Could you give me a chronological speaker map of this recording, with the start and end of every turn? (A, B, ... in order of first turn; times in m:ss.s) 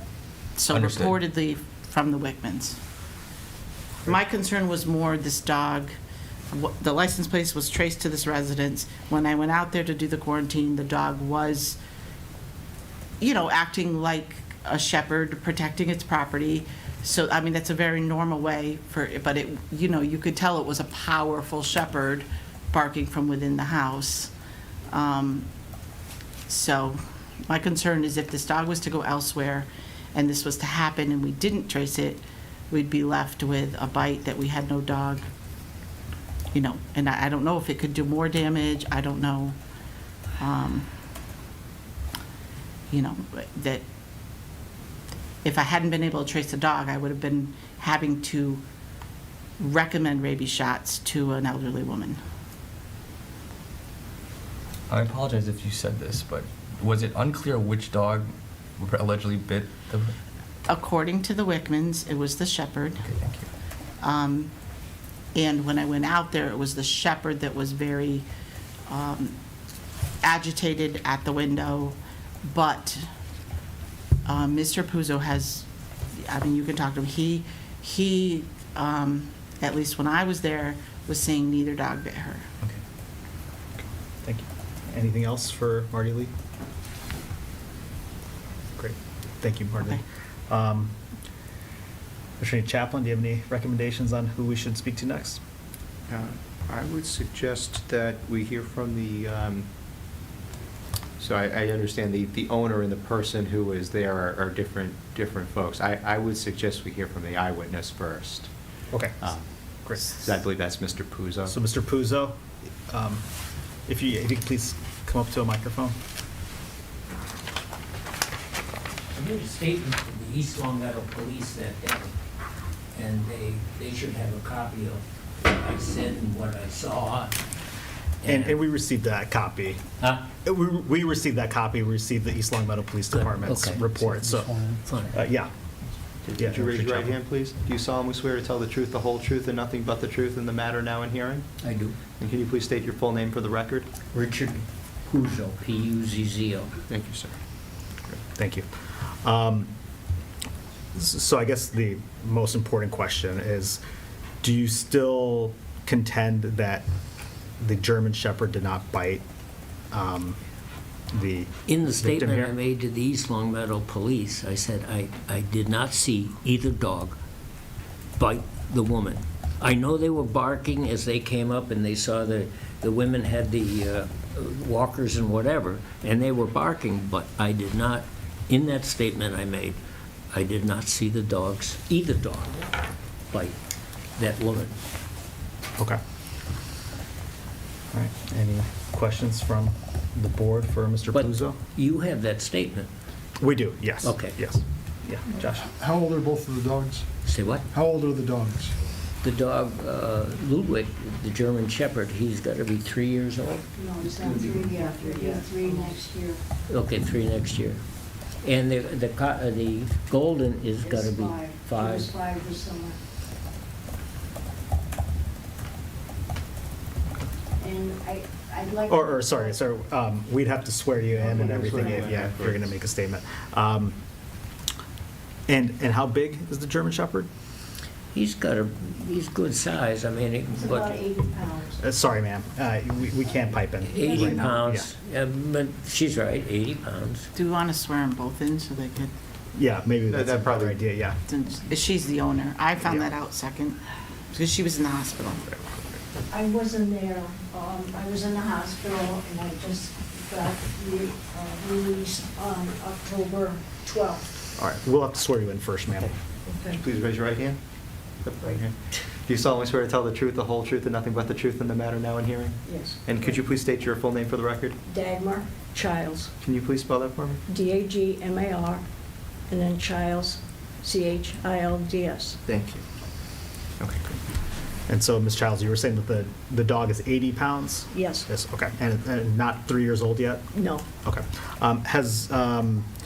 0:00.6-0:02.8 A
0:00.7-0:01.2 B
0:04.0-0:05.9 A
0:06.5-0:11.8 A
0:13.2-0:24.3 A
0:24.9-0:25.5 A
0:26.5-0:35.3 A
0:36.5-0:39.6 A
0:40.4-0:40.9 A
0:42.9-0:43.8 A
0:45.4-0:48.6 A
0:49.6-0:52.2 A
0:54.9-1:00.2 B
1:00.7-1:03.0 A
1:03.0-1:03.4 B
1:04.0-1:04.5 A
1:05.3-1:08.2 A
1:08.9-1:09.4 A
1:10.2-1:13.0 A
1:14.3-1:15.7 A
1:16.2-1:22.5 A
1:23.8-1:26.3 C
1:28.8-1:30.9 C
1:32.4-1:35.4 C
1:36.1-1:39.7 D
1:41.2-1:48.5 D
1:48.9-1:50.3 C
1:50.2-1:51.6 D
1:51.5-1:53.2 C
1:53.9-1:56.0 C
1:59.1-2:02.1 E
2:02.9-2:07.4 E
2:08.2-2:08.6 E
2:08.2-2:09.8 C
2:10.0-2:10.3 E
2:10.4-2:14.5 C
2:13.1-2:13.9 E
2:14.0-2:15.2 F
2:14.8-2:15.2 E
2:15.1-2:15.5 C
2:16.2-2:21.5 D
2:16.4-2:17.2 C
2:21.6-2:22.0 E
2:22.2-2:23.9 D
2:24.1-2:26.7 E
2:26.9-2:27.4 D
2:28.4-2:29.7 C
2:31.0-2:33.8 C
2:34.4-2:36.9 C
2:37.6-2:39.2 C
2:39.9-2:40.4 C
2:41.1-2:42.5 C
2:41.7-2:47.2 E
2:48.2-2:59.8 E
3:00.3-3:02.7 E
3:03.3-3:03.6 E
3:04.2-3:04.7 E
3:07.9-3:11.6 C
3:11.1-3:12.9 E
3:13.4-3:15.7 C
3:14.0-3:14.4 E
3:15.7-3:17.1 F
3:17.2-3:17.7 E
3:17.7-3:18.8 F
3:19.2-3:23.7 E
3:23.7-3:26.4 G
3:26.7-3:27.8 E
3:28.4-3:32.2 E
3:30.8-3:33.0 G
3:37.6-3:39.6 G
3:38.9-3:44.0 C
3:41.2-3:42.7 D
3:41.4-3:42.0 G
3:45.5-3:47.3 C
3:48.1-3:51.1 E
3:50.5-3:51.8 G
3:51.8-3:54.9 C
3:53.8-3:57.3 E
3:54.0-3:54.6 G
3:57.3-3:59.1 A
3:59.6-4:01.2 C
4:00.1-4:00.8 D
4:01.3-4:03.8 A
4:04.3-4:05.4 A
4:06.3-4:14.3 G
4:14.6-4:16.1 C
4:16.5-4:16.8 G
4:16.8-4:17.6 D
4:18.2-4:24.8 D
4:22.6-4:23.2 G
4:24.9-4:26.3 G
4:26.4-4:27.4 D
4:27.5-4:28.8 G
4:29.5-4:32.4 G
4:32.5-4:32.8 D
4:33.8-4:34.2 D
4:34.9-4:40.4 C
4:37.9-4:38.3 G
4:40.5-4:40.9 G
4:41.0-4:42.9 C